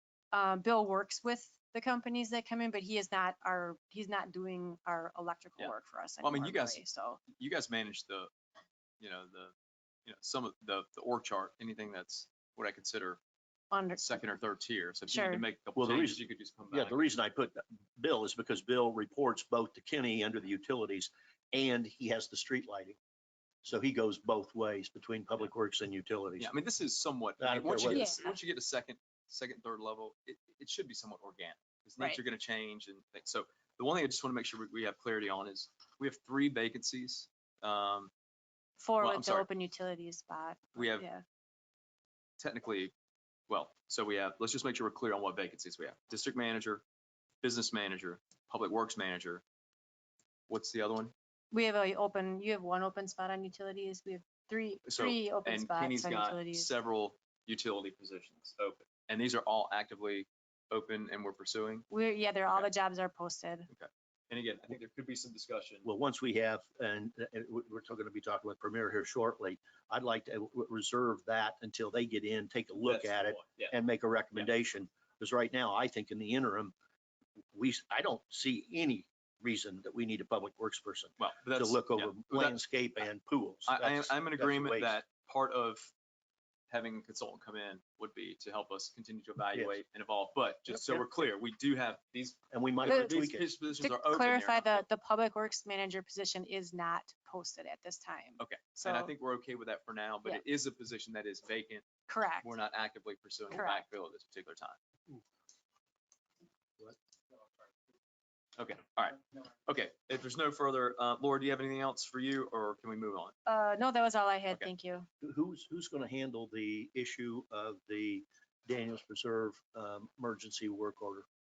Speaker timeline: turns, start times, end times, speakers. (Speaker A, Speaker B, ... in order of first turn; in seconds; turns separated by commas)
Speaker A: 0.3-7.2, Speaker B: 5.6-8.3, Speaker B: 9.0-9.5, Speaker B: 10.1-13.2, Speaker A: 13.7-14.2, Speaker B: 14.0-17.0, Speaker A: 15.1-15.4, Speaker C: 15.8-16.2, Speaker C: 16.7-23.0, Speaker C: 23.6-26.5, Speaker B: 26.4-38.1, Speaker C: 27.4-28.3, Speaker A: 27.8-28.4, Speaker A: 38.8-41.2, Speaker B: 39.0-39.5, Speaker B: 40.8-41.1, Speaker B: 42.4-42.9, Speaker B: 43.5-46.8, Speaker B: 47.4-49.4, Speaker B: 50.5-51.1, Speaker A: 51.5-56.7, Speaker B: 54.9-61.9, Speaker A: 61.9-63.7, Speaker B: 63.7-65.8, Speaker C: 65.8-76.7, Speaker B: 72.8-73.7, Speaker C: 77.5-85.0, Speaker B: 81.2-82.6, Speaker B: 83.7-85.9, Speaker B: 86.7-94.8, Speaker C: 89.5-89.8, Speaker C: 92.5-93.5, Speaker A: 92.9-93.1, Speaker A: 93.7-99.1, Speaker B: 98.4-101.9, Speaker A: 102.1-102.5, Speaker B: 102.4-104.8, Speaker A: 103.5-103.8, Speaker B: 108.6-113.3, Speaker A: 113.5-115.1, Speaker C: 115.2-121.3